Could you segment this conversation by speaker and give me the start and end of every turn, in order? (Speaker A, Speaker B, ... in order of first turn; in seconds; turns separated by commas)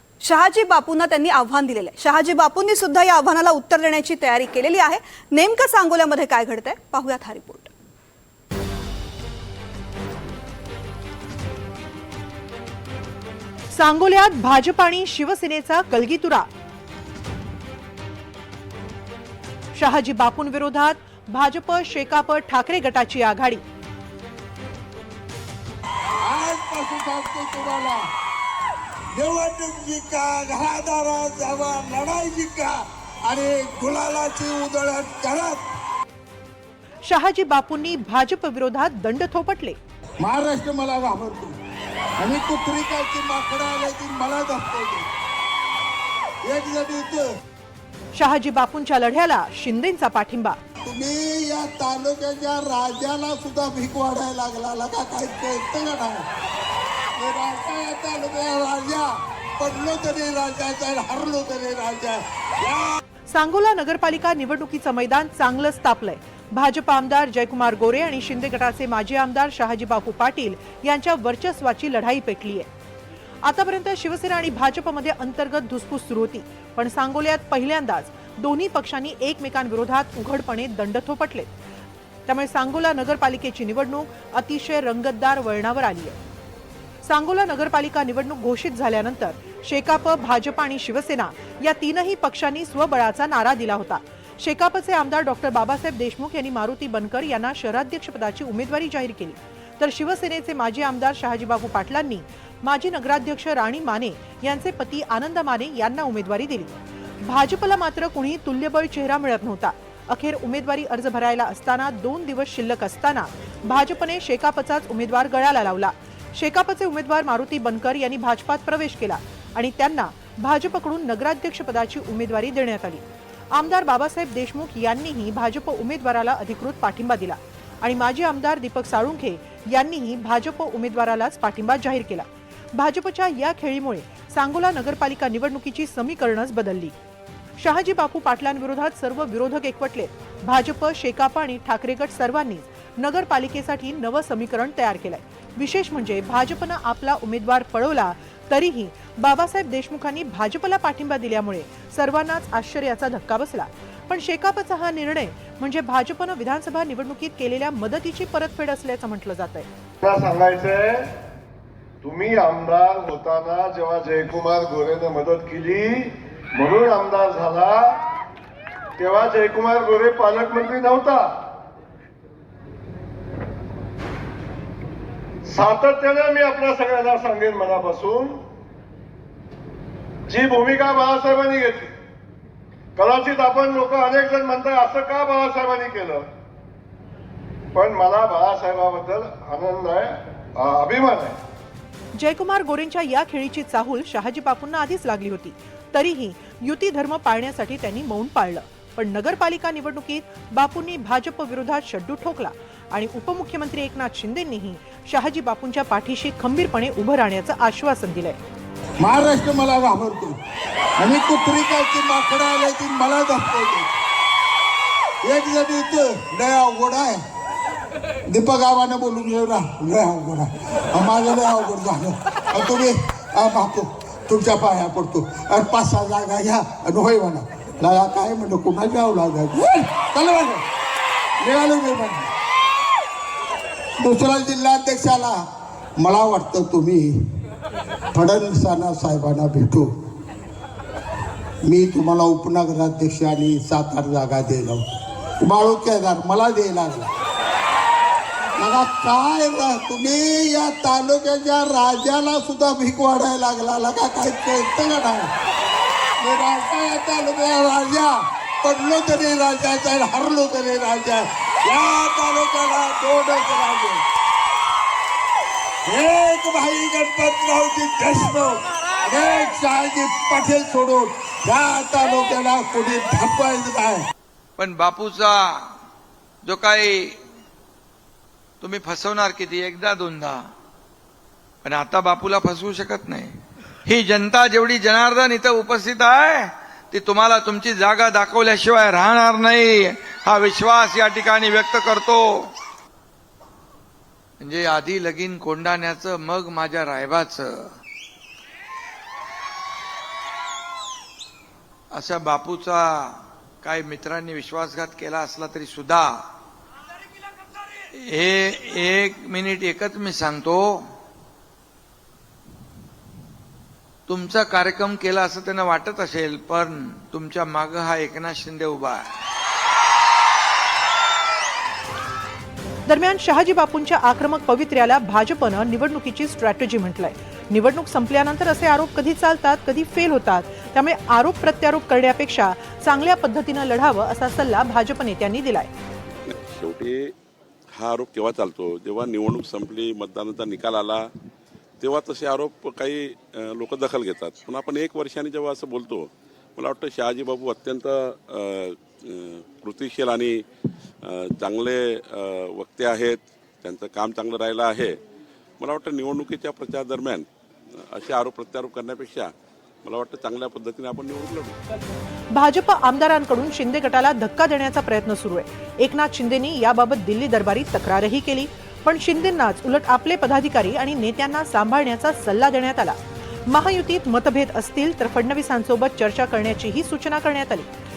Speaker A: 0.2-7.7, Speaker B: 13.7-16.4, Speaker B: 19.7-23.6, Speaker C: 26.2-28.0, Speaker C: 29.1-35.6, Speaker B: 37.0-39.8, Speaker C: 40.2-41.5, Speaker C: 42.2-45.1, Speaker C: 46.5-47.3, Speaker B: 48.1-50.6, Speaker C: 50.8-56.2, Speaker C: 57.2-63.0, Speaker B: 63.3-72.7, Speaker B: 73.4-81.5, Speaker B: 82.2-86.2, Speaker B: 87.0-106.7, Speaker B: 107.2-136.9, Speaker B: 137.6-159.7, Speaker D: 160.0-161.0, Speaker D: 162.0-168.0, Speaker D: 169.0-171.3, Speaker D: 175.5-178.4, Speaker D: 180.3-181.9, Speaker D: 183.0-186.2, Speaker D: 187.7-191.3, Speaker B: 192.1-208.4, Speaker C: 209.0-210.3, Speaker C: 211.0-213.9, Speaker C: 215.2-217.2, Speaker C: 218.3-230.6, Speaker C: 231.4-232.3, Speaker C: 234.0-235.4, Speaker C: 236.0-237.1, Speaker C: 238.1-239.9, Speaker C: 241.6-244.8, Speaker C: 245.4-247.1, Speaker C: 248.6-255.3, Speaker C: 256.2-264.0, Speaker C: 265.9-274.0, Speaker E: 274.6-275.7, Speaker E: 276.4-277.2, Speaker E: 278.6-280.4, Speaker E: 281.6-292.5, Speaker E: 294.4-297.7, Speaker E: 301.9-306.2, Speaker E: 307.9-310.8, Speaker E: 314.1-319.1, Speaker B: 322.9-335.7, Speaker F: 336.2-337.1, Speaker F: 337.7-341.0, Speaker F: 341.8-350.4, Speaker F: 351.0-355.0, Speaker F: 355.6-357.3, Speaker F: 357.9-359.3, Speaker F: 359.8-361.6, Speaker B: 362.3-377.7